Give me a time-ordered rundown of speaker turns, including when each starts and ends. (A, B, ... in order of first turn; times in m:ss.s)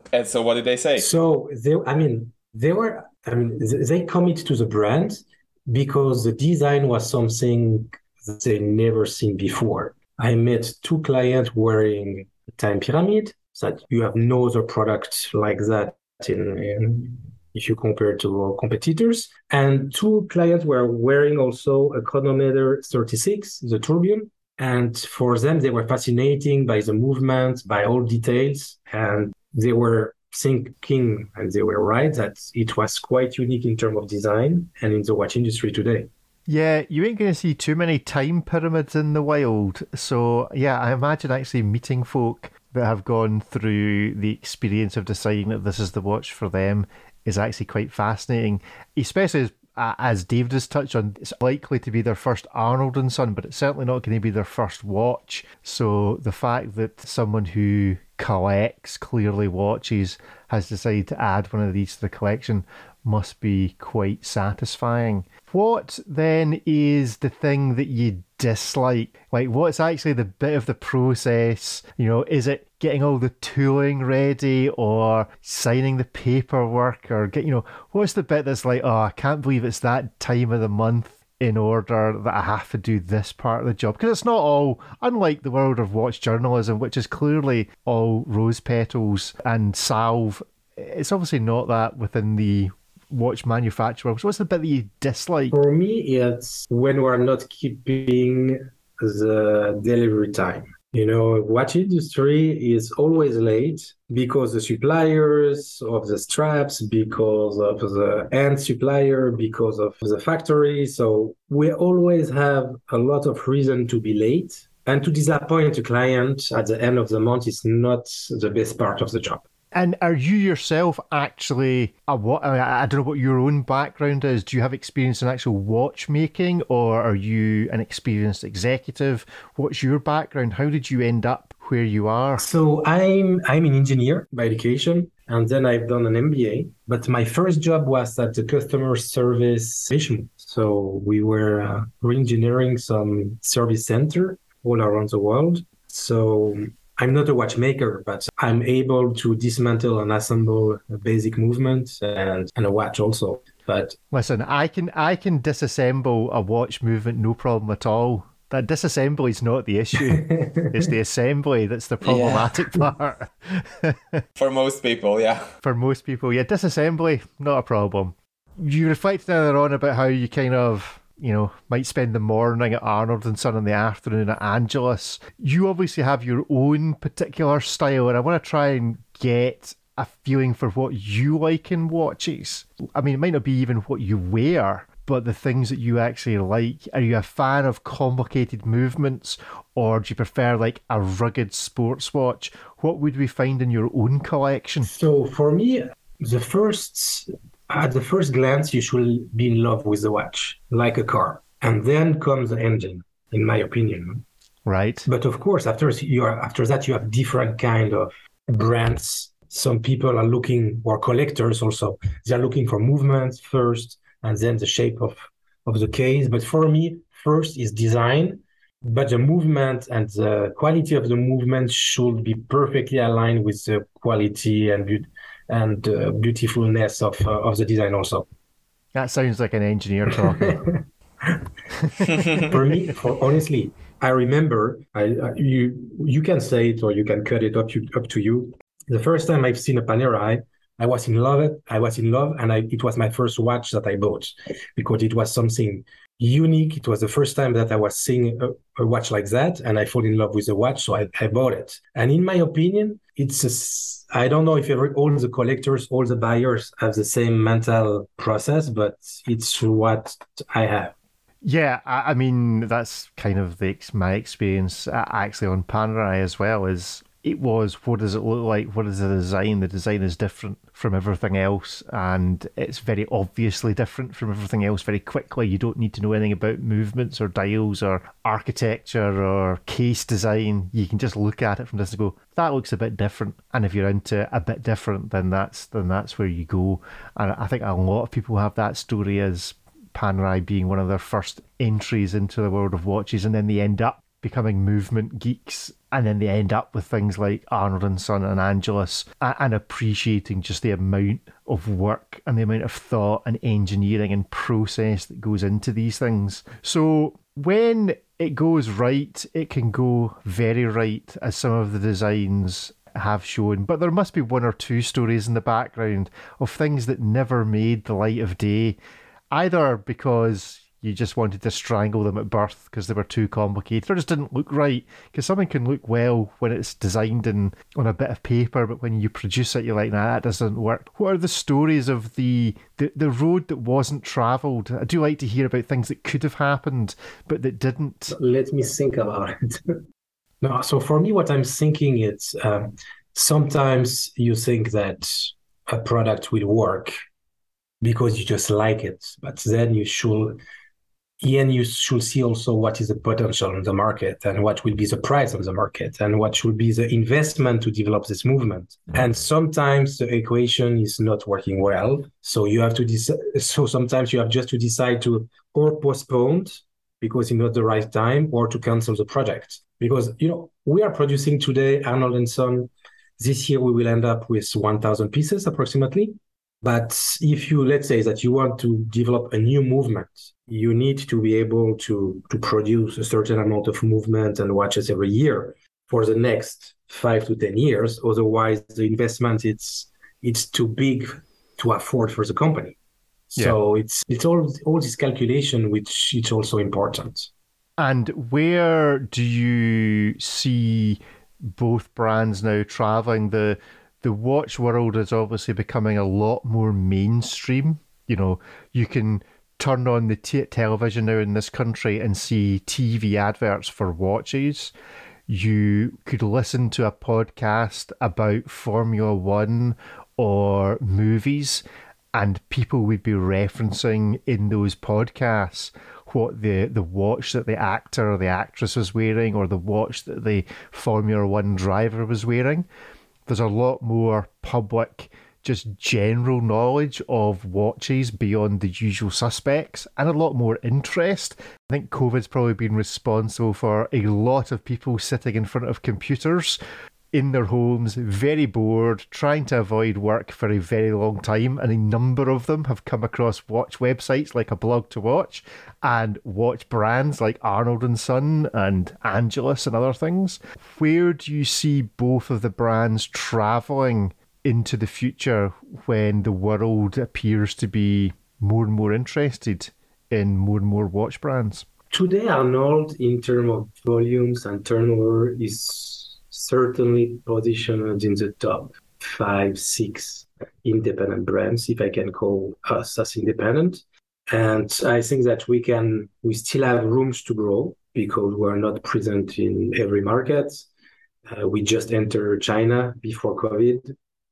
0:00.1-0:01.1 A
0:01.0-0:36.1 B
0:36.5-1:35.5 C
1:35.5-1:59.4 B
1:59.7-2:12.5 C
2:12.4-2:34.0 B
2:34.1-2:44.2 C
2:40.1-2:40.9 B
2:42.0-2:42.7 A
2:44.4-2:45.5 A
2:45.6-3:14.9 C
3:14.8-3:24.2 B
3:24.7-3:25.1 C
3:25.1-3:48.3 B
3:49.0-3:50.6 C
3:50.5-3:51.5 B
3:51.8-3:52.4 C
3:52.3-4:21.0 B
4:21.4-5:18.8 C
5:19.3-5:38.2 C
5:38.1-5:39.8 B
5:40.4-5:46.9 B
5:47.8-5:50.4 B
5:51.2-6:32.8 B
6:33.3-6:37.3 B
6:37.8-6:54.7 C
6:55.3-7:12.7 C
7:13.3-7:26.6 C
7:27.1-7:51.7 C
7:51.9-8:10.7 B
8:11.3-8:13.9 B